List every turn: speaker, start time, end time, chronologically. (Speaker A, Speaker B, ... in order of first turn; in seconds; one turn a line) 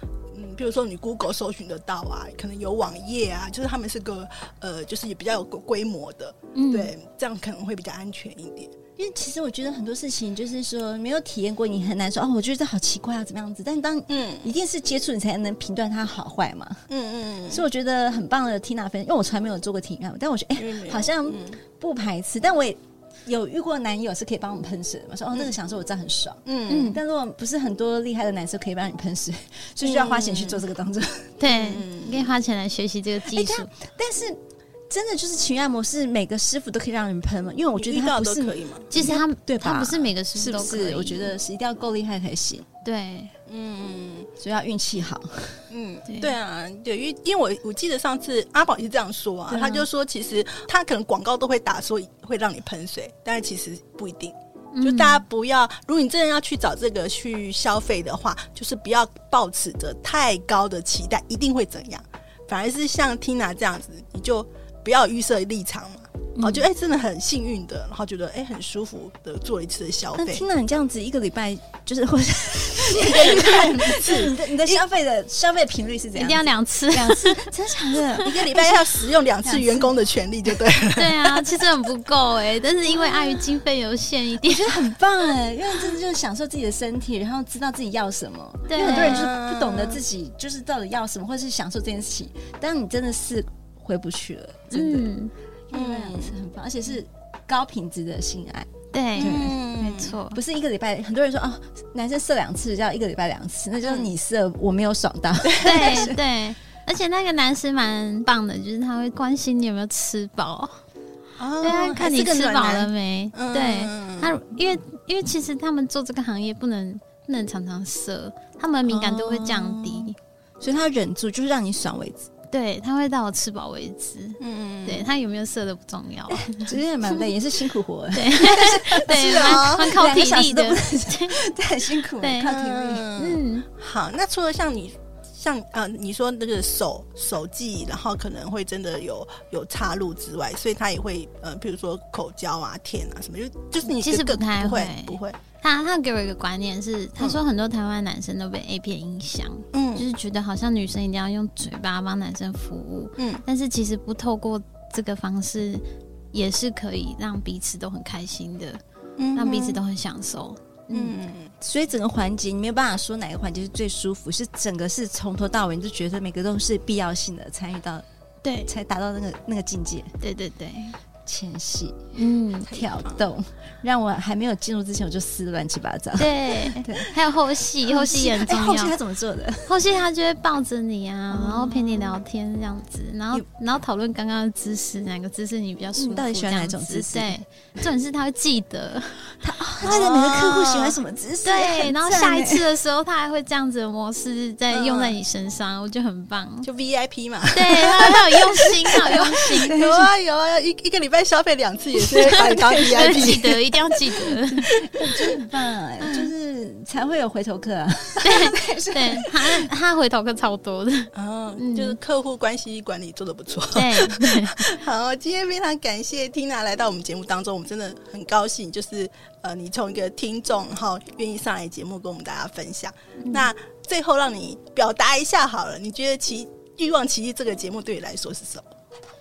Speaker A: 0.3-8.7
Speaker B: 6.5-6.9
Speaker C: 9.0-16.8
Speaker A: 14.1-14.5
Speaker A: 16.9-17.6
Speaker C: 17.5-31.4
Speaker A: 20.6-21.6
Speaker A: 26.4-26.9
Speaker B: 26.7-27.0
Speaker A: 29.8-30.6
Speaker B: 31.4-33.7
Speaker A: 31.4-32.3
Speaker C: 33.2-42.7
Speaker A: 37.8-38.9
Speaker B: 38.9-41.3
Speaker B: 42.9-43.3
Speaker A: 43.5-44.3
Speaker C: 44.4-45.6
Speaker A: 45.7-70.4
Speaker C: 49.5-49.8
Speaker B: 54.7-55.2
Speaker B: 66.4-66.6
Speaker C: 70.2-79.9
Speaker A: 72.8-74.8
Speaker B: 76.2-77.5
Speaker A: 78.2-81.6
Speaker B: 81.0-84.9
Speaker C: 84.4-95.1
Speaker B: 88.7-89.3
Speaker A: 88.8-90.0
Speaker B: 94.7-95.3
Speaker C: 95.7-106.2
Speaker A: 95.7-96.3
Speaker B: 98.9-100.4
Speaker A: 99.2-100.2
Speaker A: 105.4-106.0
Speaker B: 105.6-110.8
Speaker A: 111.4-114.4
Speaker B: 111.6-120.2
Speaker C: 118.9-122.3
Speaker B: 122.5-127.2
Speaker A: 124.4-125.1
Speaker C: 126.3-133.1
Speaker B: 128.1-131.4
Speaker A: 128.9-130.0
Speaker B: 132.2-132.5
Speaker A: 132.4-145.4
Speaker B: 133.2-133.7
Speaker B: 143.8-158.8
Speaker A: 149.7-150.1
Speaker A: 153.2-153.4
Speaker A: 159.2-159.8
Speaker B: 159.3-161.1
Speaker A: 160.9-161.5
Speaker C: 161.6-168.0
Speaker B: 168.4-168.7
Speaker C: 168.7-170.2
Speaker B: 170.2-171.0
Speaker C: 171.2-172.1
Speaker B: 172.2-172.7
Speaker A: 172.7-173.3
Speaker C: 172.7-177.2
Speaker B: 176.2-178.9
Speaker C: 177.9-179.7
Speaker B: 179.7-189.2
Speaker C: 181.3-182.2
Speaker C: 186.0-187.4
Speaker C: 189.4-192.6
Speaker B: 189.8-190.1
Speaker A: 189.8-191.0
Speaker B: 191.4-196.7
Speaker A: 194.7-195.2
Speaker A: 196.6-205.3
Speaker B: 197.5-199.8
Speaker C: 199.6-200.1
Speaker B: 202.2-204.7
Speaker C: 202.3-203.4
Speaker C: 204.4-209.7
Speaker B: 208.2-212.0
Speaker A: 211.1-228.7
Speaker B: 213.7-214.6